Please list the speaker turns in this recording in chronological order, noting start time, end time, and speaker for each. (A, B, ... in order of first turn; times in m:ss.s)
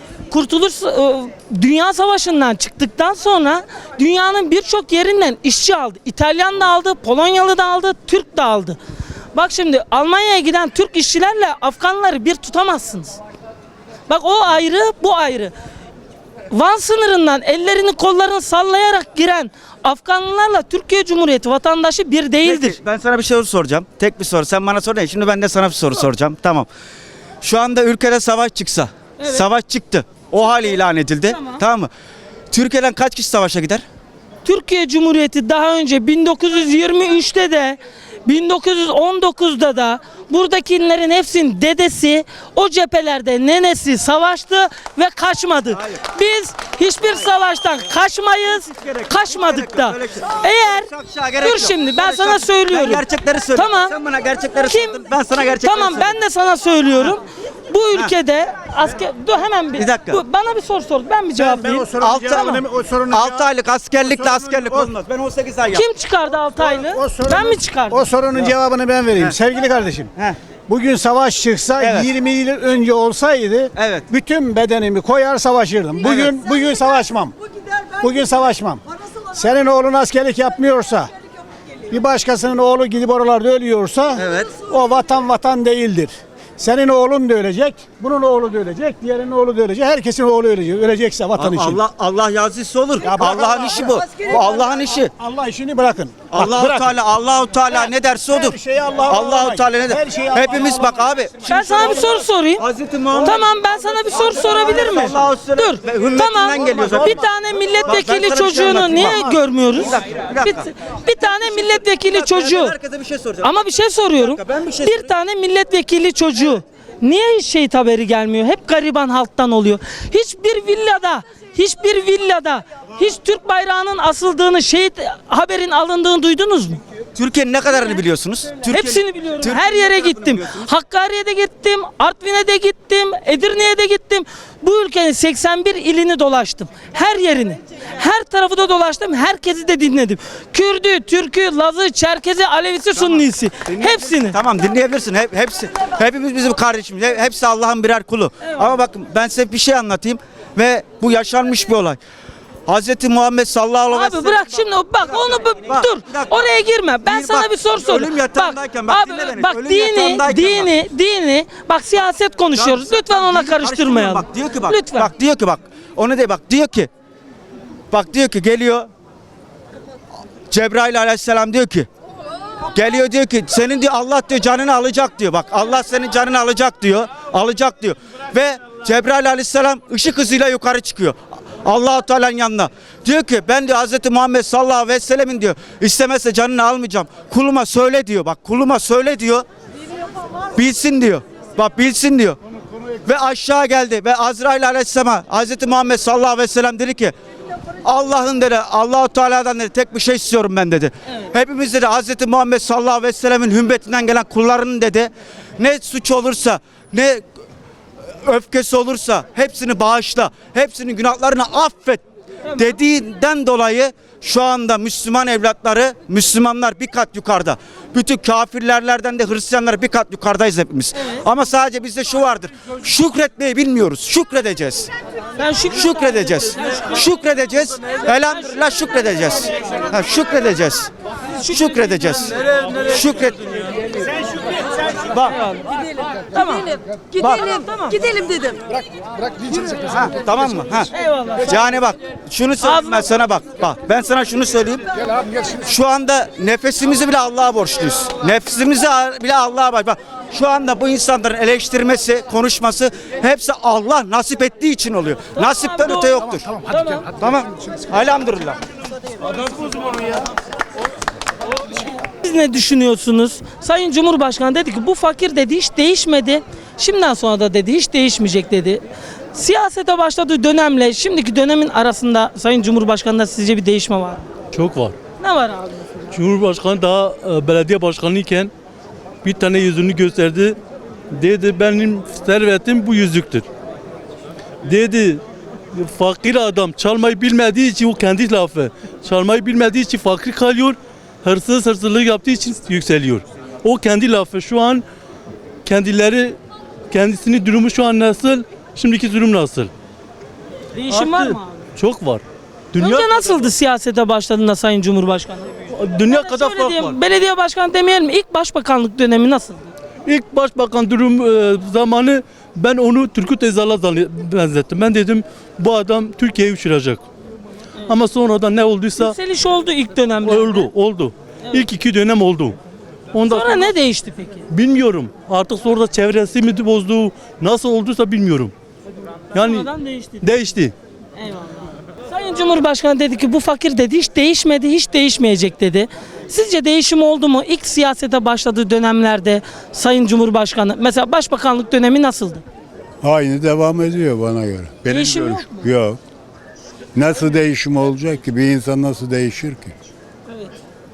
0:00.3-0:08.8 A
0:09.4-0:13.2 A
0:14.1-0:15.5 A
0:16.5-0:22.8 A
0:22.4-0:26.7 B
0:27.4-0:31.9 B
0:29.2-0:29.4 A
0:30.4-0:31.6 A
0:32.5-0:33.8 B
0:34.4-0:53.0 A
0:48.7-0:56.1 B
0:53.6-0:54.0 A
0:54.6-1:01.9 A
0:59.8-1:00.2 B
1:01.4-1:04.9 C
1:02.0-1:05.9 B
1:05.7-1:08.1 A
1:06.6-1:10.1 C
1:10.7-1:17.3 C
1:11.8-1:12.1 B
1:13.8-1:14.0 B
1:16.0-1:16.3 B
1:18.0-1:18.8 C
1:19.3-1:21.1 C
1:21.9-1:31.8 C
1:24.2-1:24.6 B
1:31.4-1:35.1 B
1:33.0-1:37.0 C
1:36.3-1:42.0 B
1:37.7-1:41.2 C
1:41.5-1:52.8 A
1:42.6-1:43.5 B
1:44.1-1:47.2 B
1:47.8-1:50.7 B
1:51.2-1:55.1 B
1:53.4-2:06.8 A
2:07.2-2:10.7 B
2:08.7-2:24.4 A
2:23.0-2:32.0 B
2:32.7-2:34.6 B
2:33.9-2:45.1 A
2:35.7-2:36.5 B
2:37.1-2:40.7 B
2:42.6-2:46.9 B
2:47.9-2:48.9 B
2:50.5-2:51.9 B
2:52.7-3:09.5 B
3:10.5-3:12.4 B
3:13.0-3:17.2 B
3:17.8-3:27.3 B
3:28.2-3:32.0 B
3:32.4-3:32.7 A
3:32.6-3:44.9 B
3:41.0-3:41.2 A
3:45.4-3:46.1 A
3:45.7-3:50.9 B
3:51.4-3:52.1 A
3:51.5-3:53.6 B
3:55.1-3:55.4 B
3:55.3-3:58.5 A
3:57.2-3:57.5 B
3:59.7-4:00.9 B
4:00.9-4:01.6 A
4:01.4-4:04.9 B
4:02.6-4:03.1 A
4:05.5-4:16.4 B
4:15.4-4:17.1 A
4:17.2-4:18.6 B
4:22.2-4:28.8 A
4:29.3-4:34.3 A
4:34.5-4:35.0 D
4:35.2-4:36.2 A
4:36.1-4:38.5 D
4:39.2-4:40.6 D
4:41.1-4:43.4 D
4:44.6-4:45.2 D
4:45.8-4:54.8 D
4:55.6-4:56.4 D
4:56.9-4:59.7 D
5:00.7-5:01.7 A
5:00.9-5:02.2 D
5:02.7-5:03.5 D
5:02.8-5:09.7 A
5:05.7-5:07.0 D
5:10.1-5:17.0 D
5:17.9-5:19.2 D
5:19.0-5:20.7 A
5:20.2-5:22.6 D
5:23.1-5:23.7 D
5:23.3-5:24.5 A
5:24.5-5:28.5 D
5:29.3-5:30.4 A
5:29.4-5:29.7 D
5:30.2-5:30.7 D
5:31.2-5:42.4 A
5:43.0-5:46.0 E
5:44.9-5:45.7 A
5:46.9-5:49.7 E
5:50.3-5:50.6 A